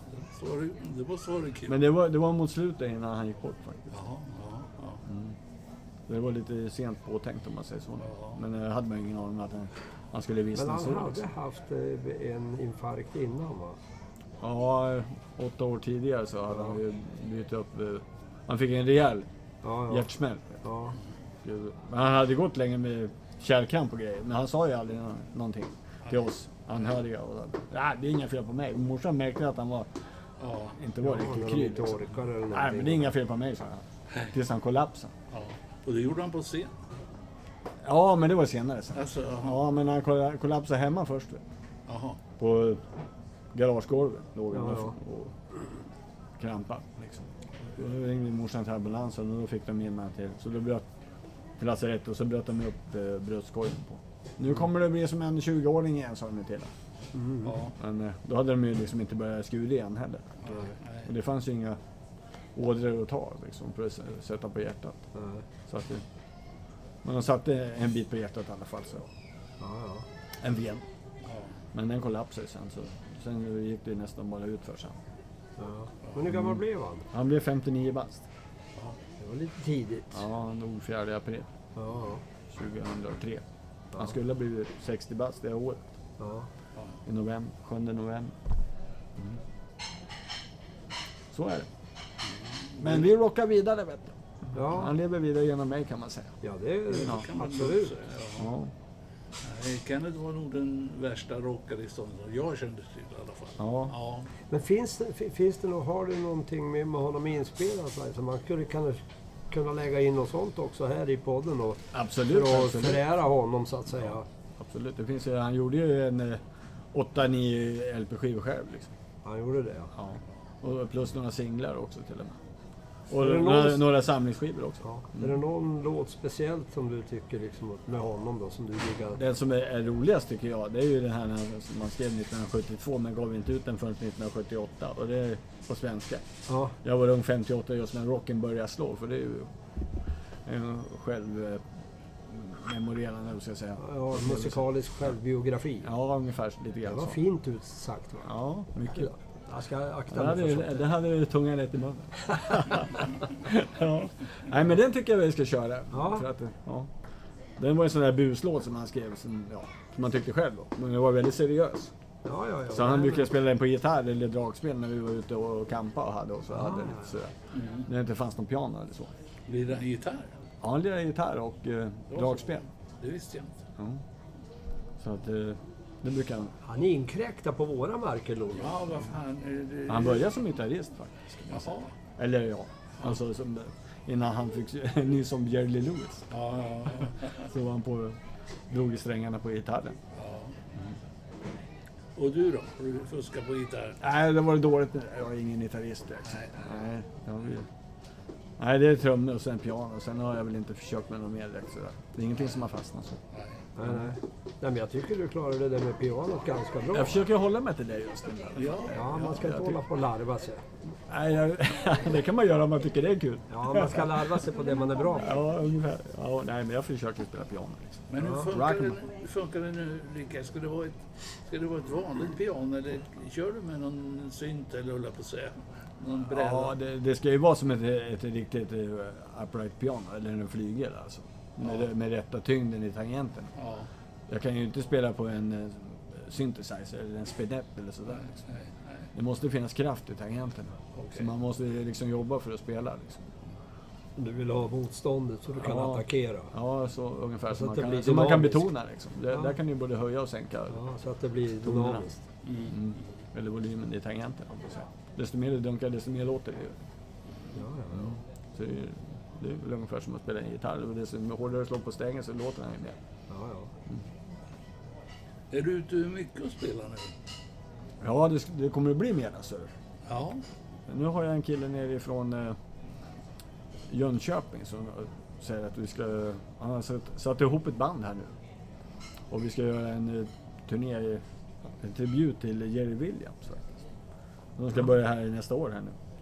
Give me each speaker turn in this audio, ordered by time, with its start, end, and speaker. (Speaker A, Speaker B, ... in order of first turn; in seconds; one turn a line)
Speaker A: 0.1-1.8
Speaker B: 1.7-4.0
Speaker A: 3.9-5.0
Speaker B: 5.0-5.4
Speaker B: 6.1-11.2
Speaker A: 8.1-8.4
Speaker C: 10.5-13.8
Speaker B: 14.4-19.3
Speaker C: 19.6-20.1
Speaker B: 19.9-20.6
Speaker C: 20.6-20.9
Speaker B: 21.4-29.9
Speaker A: 30.4-30.8
Speaker B: 30.8-35.1
Speaker C: 31.0-33.1
Speaker A: 35.3-36.7
Speaker B: 37.8-41.4
Speaker A: 38.9-39.6
Speaker A: 41.9-42.2
Speaker B: 42.4-42.8
Speaker B: 43.5-45.3
Speaker C: 44.5-44.9
Speaker B: 46.4-50.9
Speaker B: 51.6-56.7
Speaker C: 57.1-57.5
Speaker A: 57.4-57.7
Speaker B: 57.8-61.8
Speaker A: 60.4-61.1
Speaker B: 62.5-65.0
Speaker C: 65.1-65.4
Speaker B: 65.7-66.0
Speaker B: 67.0-69.1
Speaker C: 69.6-70.0
Speaker B: 70.4-70.8
Speaker B: 71.7-75.0
Speaker C: 75.6-77.1
Speaker B: 76.3-76.6
Speaker B: 77.1-78.2
Speaker C: 79.2-80.2
Speaker B: 80.1-81.5
Speaker C: 81.8-82.2
Speaker B: 82.5-83.4
Speaker B: 84.0-85.8
Speaker C: 86.2-86.5
Speaker B: 87.0-88.3
Speaker B: 91.3-91.7
Speaker A: 92.2-93.0
Speaker B: 92.8-96.3
Speaker C: 94.5-94.9
Speaker C: 96.4-97.9
Speaker A: 96.9-98.5
Speaker B: 96.9-97.2
Speaker B: 98.4-98.7
Speaker A: 99.4-104.3
Speaker B: 103.6-103.9
Speaker C: 104.5-114.2
Speaker B: 111.9-113.1
Speaker B: 114.6-116.4
Speaker B: 116.9-118.9
Speaker C: 119.2-119.9
Speaker B: 120.0-122.4
Speaker B: 123.1-125.3
Speaker C: 123.2-123.8
Speaker C: 124.8-129.2
Speaker B: 129.2-136.2
Speaker C: 136.5-136.8
Speaker B: 136.8-139.5
Speaker B: 140.4-141.7
Speaker B: 142.3-144.6
Speaker C: 143.8-145.9
Speaker B: 145.8-147.2
Speaker C: 146.8-148.3
Speaker B: 148.2-149.1
Speaker C: 148.9-150.9
Speaker B: 150.1-156.9
Speaker C: 152.3-152.6
Speaker C: 155.9-156.3
Speaker B: 157.6-161.9
Speaker C: 162.2-163.3
Speaker B: 162.7-167.3
Speaker C: 166.5-167.1
Speaker A: 167.5-167.8
Speaker B: 167.8-169.1
Speaker A: 169.5-170.3
Speaker B: 170.6-172.6
Speaker A: 172.1-173.6
Speaker B: 173.8-174.0
Speaker B: 175.0-176.5
Speaker C: 176.6-179.1
Speaker A: 178.6-180.3
Speaker B: 179.9-186.3
Speaker A: 181.5-181.9
Speaker A: 186.3-187.4
Speaker B: 187.0-188.1
Speaker B: 188.7-190.0
Speaker A: 190.1-190.5
Speaker A: 192.2-194.0
Speaker B: 194.0-197.7
Speaker B: 198.6-203.2
Speaker A: 203.3-203.6
Speaker C: 203.8-207.2
Speaker B: 203.8-204.2
Speaker B: 206.9-209.8
Speaker A: 208.6-208.9
Speaker C: 208.9-210.6
Speaker B: 211.1-214.4
Speaker C: 213.5-215.4
Speaker B: 215.2-219.0
Speaker A: 218.1-226.7
Speaker C: 218.2-218.5
Speaker B: 226.3-233.5
Speaker A: 231.6-231.9
Speaker A: 233.6-233.9
Speaker B: 234.3-238.3
Speaker A: 238.1-239.1
Speaker B: 239.1-243.3
Speaker A: 240.9-241.3
Speaker C: 244.2-246.5
Speaker B: 245.6-250.8
Speaker C: 247.5-248.7
Speaker C: 250.7-252.2
Speaker B: 251.6-252.0
Speaker A: 252.4-252.8
Speaker B: 252.7-256.8
Speaker C: 257.5-258.2
Speaker B: 257.9-263.0
Speaker C: 263.3-263.7
Speaker A: 265.5-267.1
Speaker B: 268.0-269.7
Speaker A: 270.1-270.4
Speaker B: 270.9-272.6
Speaker B: 273.9-278.3
Speaker B: 279.3-283.8
Speaker B: 284.6-286.0